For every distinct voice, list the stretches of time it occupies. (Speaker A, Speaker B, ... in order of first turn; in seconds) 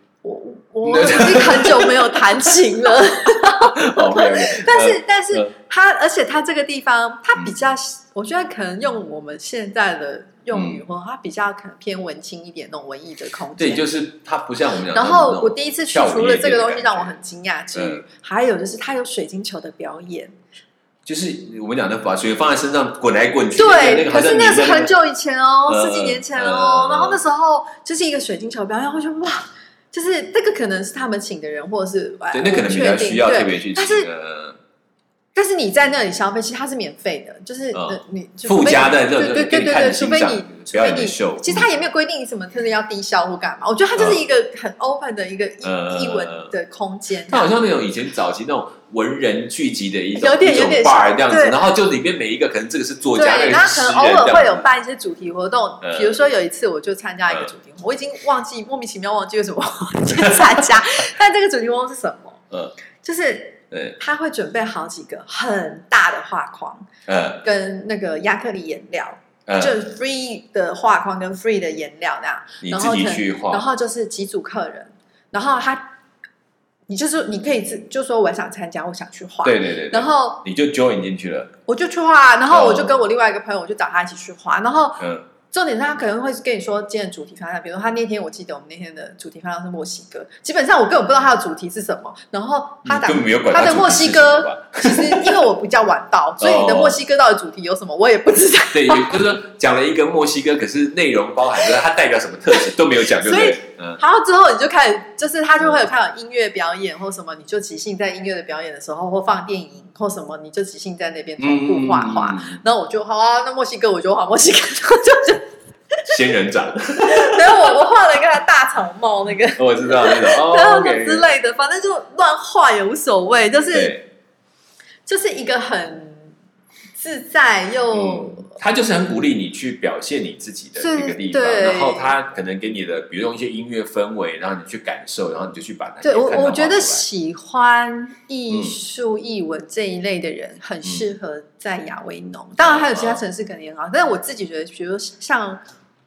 Speaker A: 0.2-13.9, 14.9-20.4, 23.6-34.1, 35.4-47.5, 50.1-51.6, 53.1-62.4, 63.0-66.9, 67.4-75.9, 76.9-80.4, 81.7-99.2, 103.1-116.1, 117.0-124.0, 125.1-126.3, 127.0-128.6, 130.8-132.1, 136.0-145.6
Speaker B: 0.8-2.5, 3.6-5.5, 10.5-10.8, 13.6-17.2, 17.7-18.1, 21.1-24.9, 25.7-27.2, 32.3-34.6, 37.7-41.7, 44.0-44.2, 45.6-46.5, 47.3-54.7, 55.8-56.2, 60.1-60.8, 63.7-64.0, 67.1-67.4, 69.5-69.8, 72.6-73.7, 79.4-81.5, 82.5-83.0, 85.0-85.3, 92.8-95.4, 96.4-97.0, 98.7-104.0, 105.6-105.9, 111.4-112.6, 116.1-117.8, 119.5-121.3, 123.7-124.0, 127.9-137.1, 138.5-138.8, 142.6-143.2